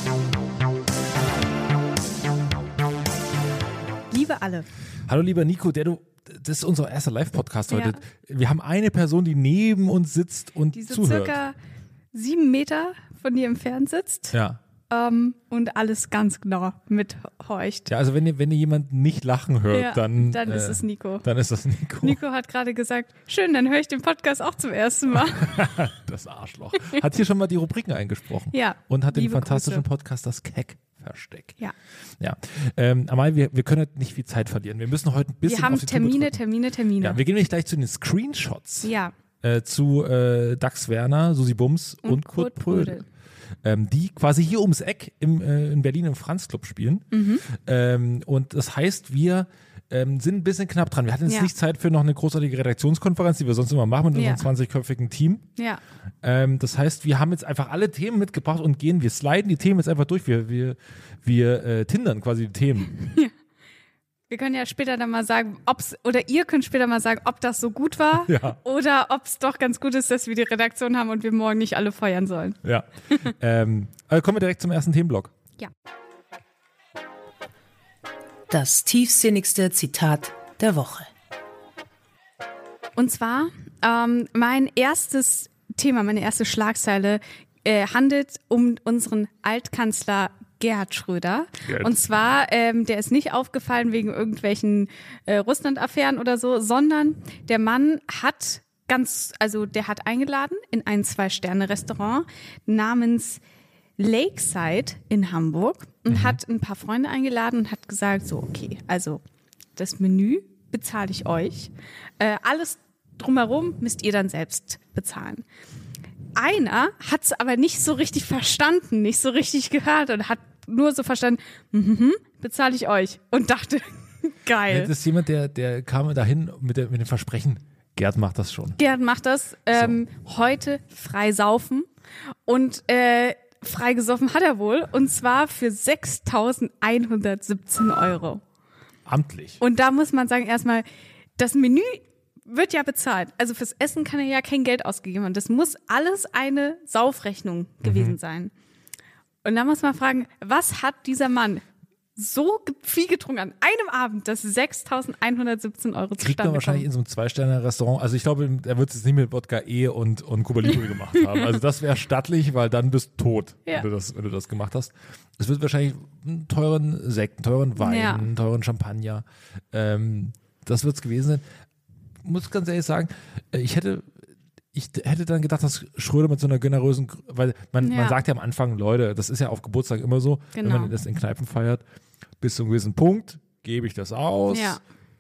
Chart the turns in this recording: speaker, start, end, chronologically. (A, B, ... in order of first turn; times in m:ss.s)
0:04.1-0:04.7 A
0:05.0-0:11.4 B
0:07.7-0:08.0 A
0:10.7-0:11.5 A
0:12.1-0:14.3 A
0:14.3-0:14.6 B
0:14.9-0:17.9 A
0:17.9-0:22.2 B
0:19.7-0:21.2 A
0:22.0-0:25.7 A
0:25.3-0:31.6 B
0:28.5-0:29.8 A
0:32.2-0:36.4 B
0:35.4-0:37.2 A
0:37.0-0:38.9 B
0:38.8-0:39.1 A
0:39.4-0:43.0 B
0:42.0-0:43.0 A
0:43.6-0:55.5 B
0:47.1-0:47.4 A
0:54.1-0:54.4 A
0:56.2-1:03.0 B
1:03.0-1:03.3 A
1:04.3-1:12.6 A
1:08.2-1:08.6 B
1:12.6-1:15.3 B
1:18.5-1:21.1 C
1:23.0-1:43.4 A
1:31.6-1:32.0 B
1:44.0-1:49.2 A
1:46.1-1:46.4 B
1:49.8-1:55.4 A
1:56.4-2:04.9 A
2:04.7-2:08.8 B
2:08.8-2:11.9 A
2:09.7-2:10.0 B
2:12.5-2:18.4 A
2:19.0-2:19.6 B
2:19.6-2:20.8 A
2:21.4-2:28.5 A
2:27.8-2:28.1 B
2:29.4-2:31.6 A
2:32.2-2:36.8 A
2:36.2-2:51.4 B
2:47.8-2:48.2 A
2:52.2-2:54.2 B
2:54.7-3:01.8 B
2:57.8-2:58.2 A
3:00.5-3:00.9 A
3:02.4-3:04.8 B
3:04.5-3:04.8 A